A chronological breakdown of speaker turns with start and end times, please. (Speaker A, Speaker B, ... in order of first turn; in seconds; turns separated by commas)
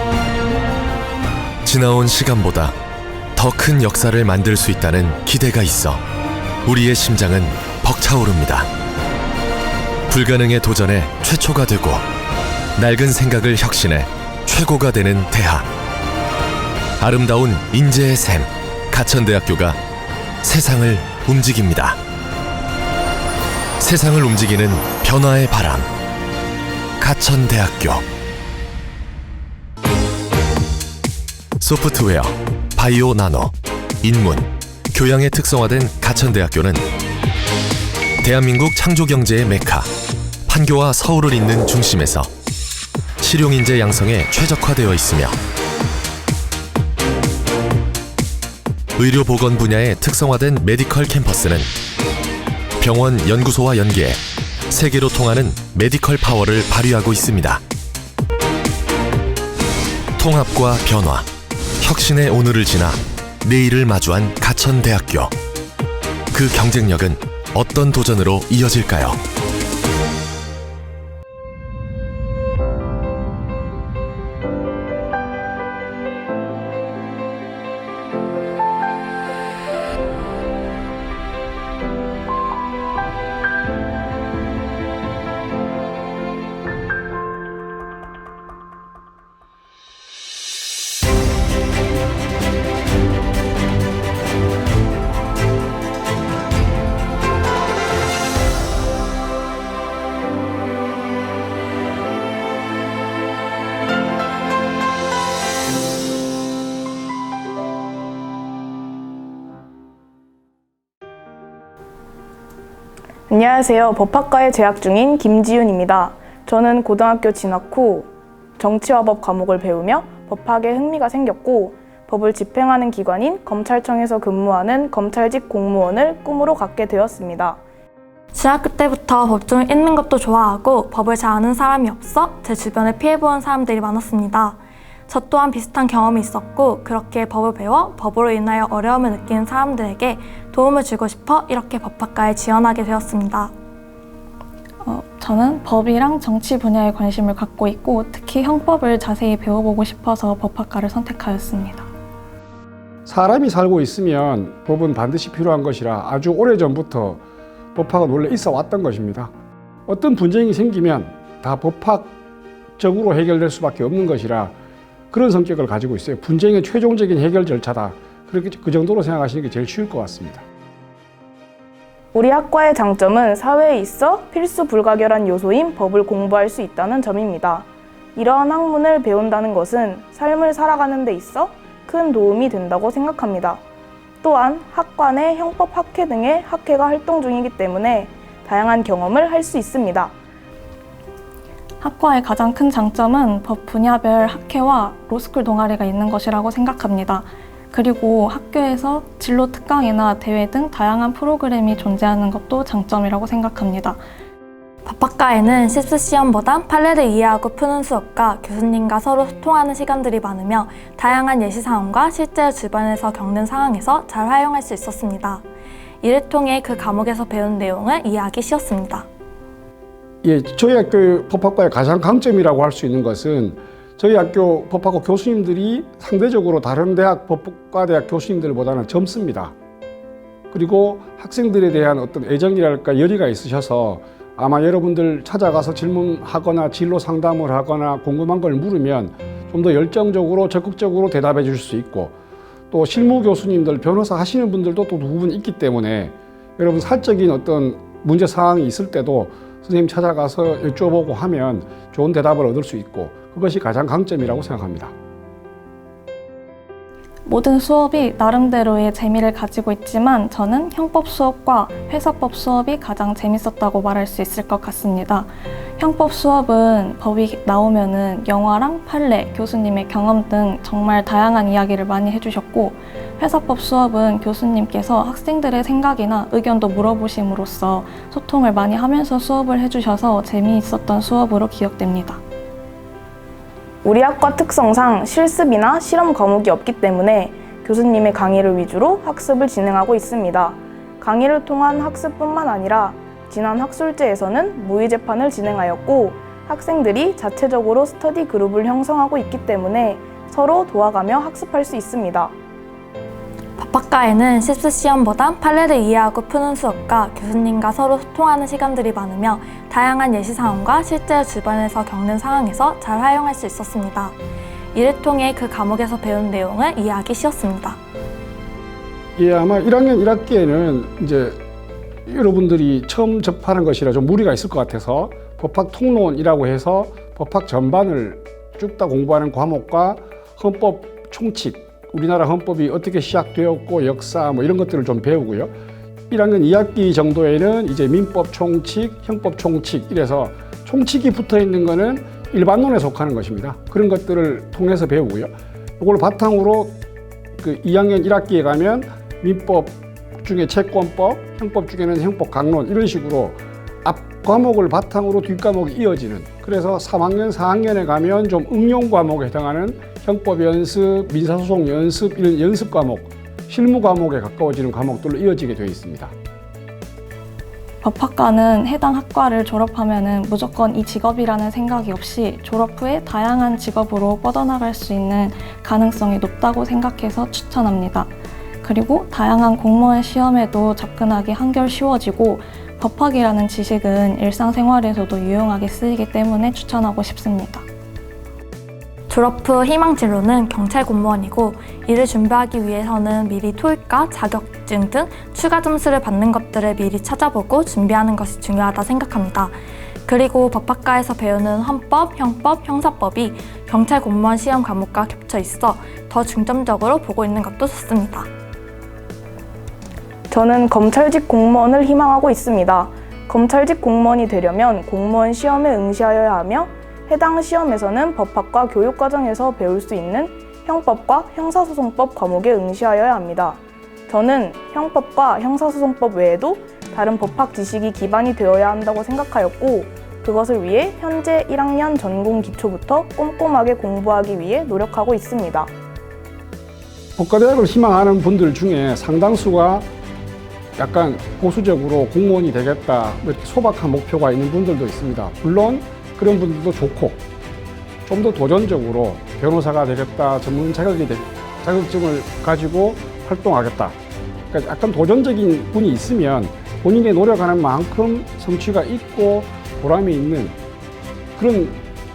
Speaker A: 1.6-2.8, Speaker A: 3.4-6.0, Speaker A: 6.7-8.7, Speaker A: 10.1-12.0, Speaker A: 12.8-15.7, Speaker A: 17.0-19.8, Speaker A: 20.4-22.0, Speaker A: 23.8-25.9, Speaker A: 27.0-28.1, Speaker A: 31.6-36.9, Speaker A: 38.2-39.9, Speaker A: 40.5-42.3, Speaker A: 43.2-45.4, Speaker A: 49.0-51.7, Speaker A: 52.8-57.6, Speaker A: 60.2-61.3, Speaker A: 61.8-65.3, Speaker A: 66.3-69.2, Speaker B: 113.3-127.6, Speaker C: 128.3-143.5, Speaker D: 144.8-151.9, Speaker E: 153.1-157.2, Speaker E: 157.7-159.3, Speaker E: 159.9-162.2, Speaker E: 162.8-164.5, Speaker E: 165.1-170.4, Speaker B: 172.1-183.6, Speaker B: 184.2-190.1, Speaker D: 191.8-204.0, Speaker C: 204.8-215.4, Speaker C: 216.0-219.1, Speaker E: 220.2-229.5, Speaker E: 230.5-242.1, Speaker E: 242.7-254.9, Speaker D: 257.2-282.2, Speaker B: 283.8-302.3, Speaker C: 303.6-314.2, Speaker C: 314.7-317.8, Speaker E: 319.2-321.4, Speaker E: 322.1-335.5, Speaker E: 336.1-346.8, Speaker E: 347.4-366.1, Speaker D: 367.8-378.1, Speaker D: 378.6-387.6, Speaker C: 389.1-408.3, Speaker B: 410.3-435.7, Speaker E: 437.2-439.9, Speaker E: 440.8-447.2, Speaker E: 448.1-454.0, Speaker E: 454.5-460.6, Speaker E: 461.4-461.8